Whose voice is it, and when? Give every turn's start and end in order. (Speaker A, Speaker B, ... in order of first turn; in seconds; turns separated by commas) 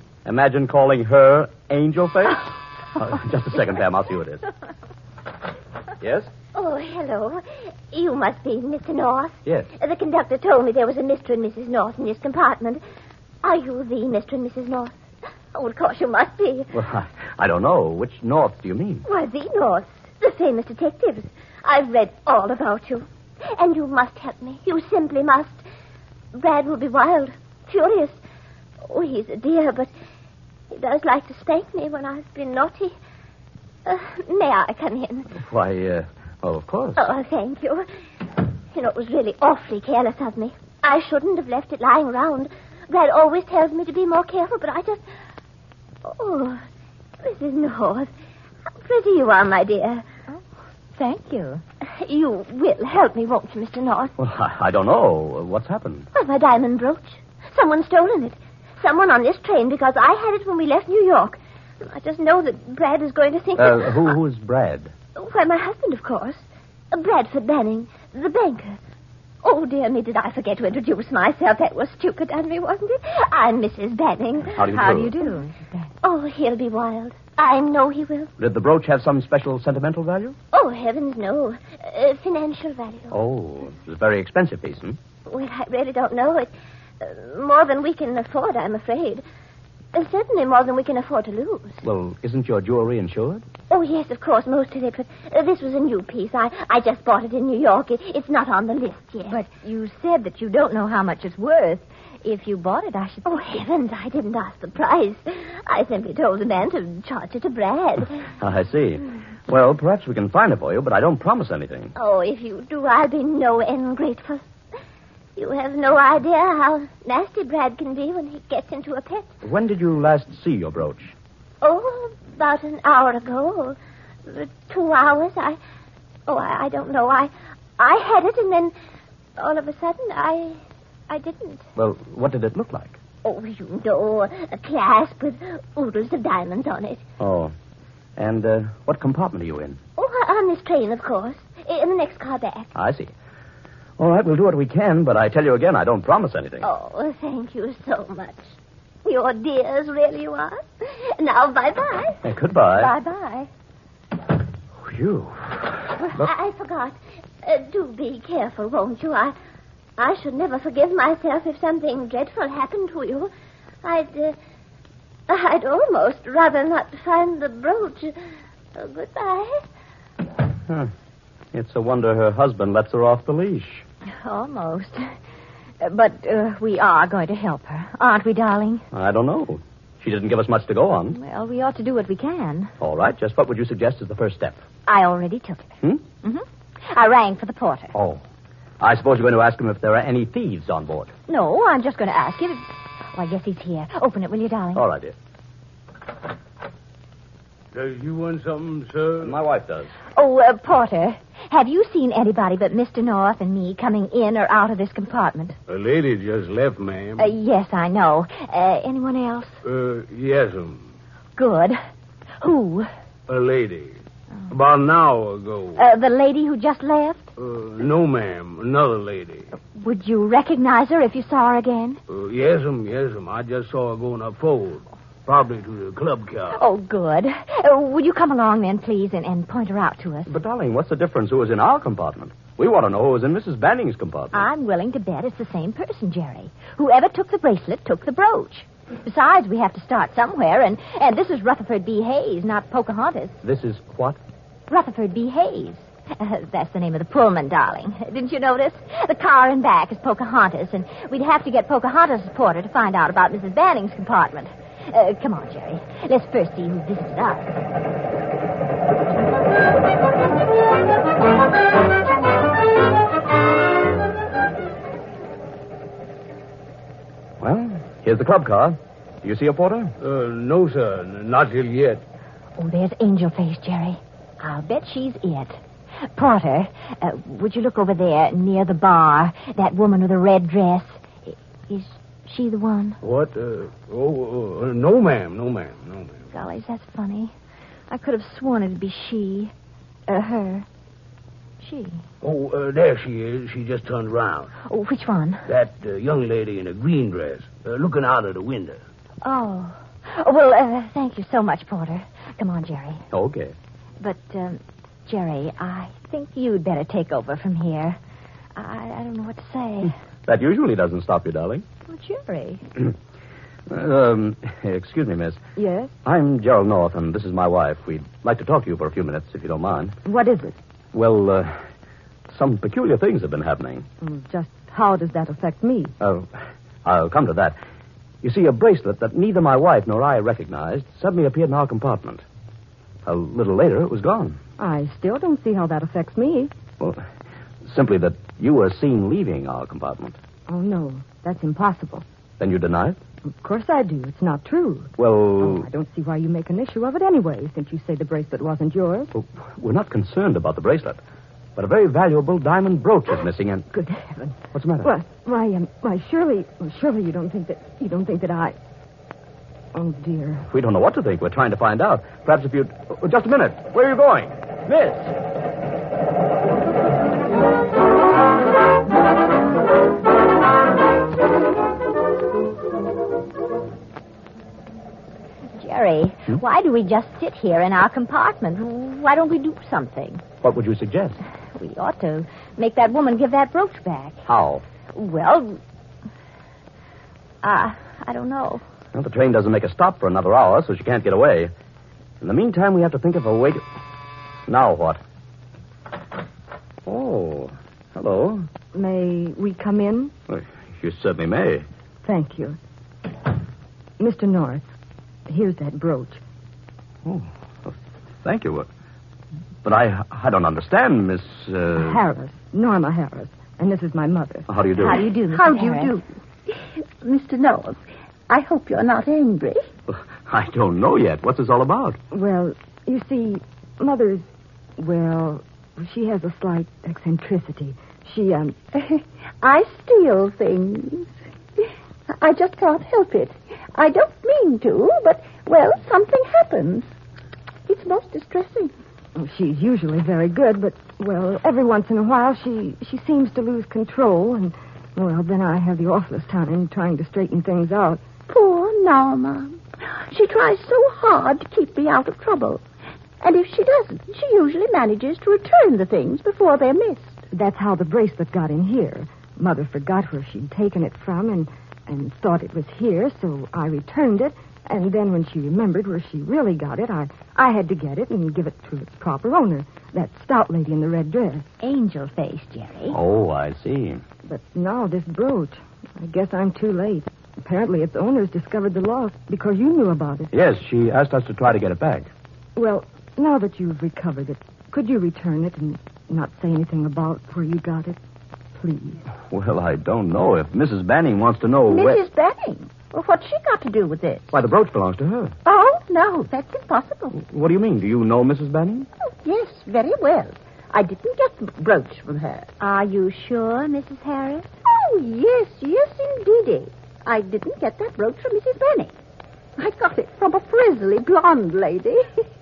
Speaker A: 0.2-4.4, Speaker A: 6.0-6.3, Speaker B: 6.5-12.8, Speaker A: 9.4-9.7, Speaker B: 13.4-14.9, Speaker B: 15.5-16.7, Speaker A: 16.7-19.0, Speaker B: 19.0-25.6, Speaker B: 26.3-28.2, Speaker B: 28.8-29.9, Speaker B: 30.7-32.9, Speaker B: 33.8-35.3, Speaker A: 35.3-37.1, Speaker B: 37.0-37.9, Speaker B: 38.7-45.0, Speaker B: 46.0-46.6, Speaker B: 47.2-48.1, Speaker B: 48.7-50.0, Speaker C: 50.9-51.6, Speaker B: 51.9-54.1, Speaker A: 54.2-56.0, Speaker B: 56.1-64.1, Speaker A: 63.6-64.9, Speaker B: 65.2-68.8, Speaker B: 69.4-74.6, Speaker A: 74.5-75.1, Speaker C: 74.7-75.9, Speaker B: 76.0-78.3, Speaker A: 78.4-80.3, Speaker B: 80.5-83.2, Speaker A: 83.1-85.0, Speaker B: 85.3-89.2, Speaker B: 89.9-91.8, Speaker A: 91.8-93.4, Speaker B: 93.7-99.4, Speaker C: 99.3-103.4, Speaker B: 103.2-108.2, Speaker A: 108.4-111.9, Speaker B: 112.0-114.4, Speaker B: 115.3-119.3, Speaker A: 119.4-121.1, Speaker B: 121.6-125.6, Speaker B: 126.3-128.7, Speaker B: 129.4-130.6, Speaker B: 131.1-131.6, Speaker A: 131.8-133.0, Speaker B: 133.2-137.0, Speaker A: 137.2-137.5, Speaker A: 138.2-139.8, Speaker B: 140.0-142.7, Speaker A: 142.7-143.1, Speaker A: 144.0-146.7, Speaker B: 146.6-148.5, Speaker B: 149.0-152.2, Speaker A: 152.2-152.9, Speaker C: 152.8-153.5, Speaker A: 154.8-156.3, Speaker B: 156.2-159.3, Speaker B: 160.0-163.3, Speaker B: 163.8-164.4, Speaker B: 165.3-168.2, Speaker B: 168.7-169.6, Speaker A: 171.5-173.8, Speaker C: 174.2-175.1, Speaker C: 175.8-178.8, Speaker A: 178.9-181.2, Speaker C: 181.1-182.7, Speaker A: 182.8-184.6, Speaker C: 184.8-187.9, Speaker A: 187.9-188.2, Speaker A: 188.8-191.1, Speaker C: 191.3-194.8, Speaker A: 194.7-195.1, Speaker D: 197.7-199.4, Speaker A: 199.2-199.9, Speaker C: 200.1-205.6, Speaker D: 205.7-207.3, Speaker C: 207.2-209.6, Speaker D: 209.6-210.8, Speaker C: 211.4-211.8, Speaker C: 212.4-212.9, Speaker D: 213.3-215.8, Speaker C: 215.8-217.3, Speaker D: 217.4-219.5, Speaker C: 219.7-222.0, Speaker D: 222.1-226.6, Speaker C: 226.5-230.3, Speaker A: 230.3-234.5, Speaker C: 234.3-243.4, Speaker A: 243.4-244.2, Speaker C: 244.7-257.6, Speaker A: 267.4-269.9, Speaker D: 270.0-272.0, Speaker C: 272.6-275.6, Speaker C: 276.1-283.0, Speaker D: 283.0-286.2, Speaker C: 286.3-287.3, Speaker C: 287.9-289.5, Speaker C: 290.1-290.6, Speaker C: 291.6-292.0, Speaker D: 292.2-294.5, Speaker C: 294.6-295.4, Speaker D: 295.4-298.8, Speaker C: 299.2-303.0, Speaker A: 303.1-303.5, Speaker C: 304.0-308.0, Speaker C: 308.6-309.9, Speaker A: 310.2-311.6, Speaker C: 311.9-312.6, Speaker A: 313.7-315.4, Speaker E: 315.6-315.9, Speaker A: 316.0-320.0, Speaker E: 320.0-320.6, Speaker A: 320.9-321.6, Speaker A: 322.3-323.9, Speaker E: 324.0-325.9, Speaker A: 326.0-327.6, Speaker A: 328.2-332.2, Speaker A: 333.0-334.4, Speaker E: 334.6-336.5, Speaker A: 336.8-337.0, Speaker A: 337.6-340.2, Speaker E: 340.5-342.0, Speaker A: 342.4-343.0, Speaker E: 343.2-349.1, Speaker A: 345.0-345.7, Speaker A: 349.1-351.0, Speaker A: 351.6-353.7, Speaker E: 353.7-358.6, Speaker A: 354.5-354.9, Speaker E: 359.7-360.4, Speaker A: 360.5-365.1, Speaker C: 375.6-380.2, Speaker A: 380.4-381.2, Speaker C: 381.5-384.2, Speaker A: 384.2-384.6, Speaker C: 384.9-385.6, Speaker C: 387.4-388.6, Speaker A: 388.9-391.5, Speaker A: 392.2-393.6, Speaker A: 394.5-395.0, Speaker A: 396.9-398.5, Speaker E: 398.7-400.1, Speaker A: 400.3-401.6, Speaker E: 402.0-402.6, Speaker E: 404.0-404.6, Speaker E: 405.3-406.2, Speaker A: 407.0-408.7, Speaker A: 409.6-412.0, Speaker E: 411.8-414.4, Speaker A: 414.5-415.0, Speaker C: 414.8-415.9, Speaker F: 415.3-419.6, Speaker A: 419.9-422.0, Speaker E: 422.1-424.3, Speaker E: 424.8-428.6, Speaker F: 428.7-431.1, Speaker F: 432.1-436.9, Speaker F: 437.7-438.7, Speaker E: 439.1-448.0, Speaker F: 448.3-452.6, Speaker F: 453.2-457.2, Speaker E: 457.3-471.4, Speaker C: 471.6-473.0, Speaker A: 472.9-474.0, Speaker E: 474.2-480.3, Speaker A: 480.3-482.1, Speaker E: 482.6-488.0, Speaker E: 488.6-489.0, Speaker A: 489.3-492.0, Speaker F: 491.7-494.3, Speaker A: 494.3-495.3, Speaker F: 495.4-497.2, Speaker A: 497.2-498.9, Speaker F: 499.0-502.5, Speaker C: 502.6-504.4, Speaker F: 504.6-508.9, Speaker F: 509.6-512.1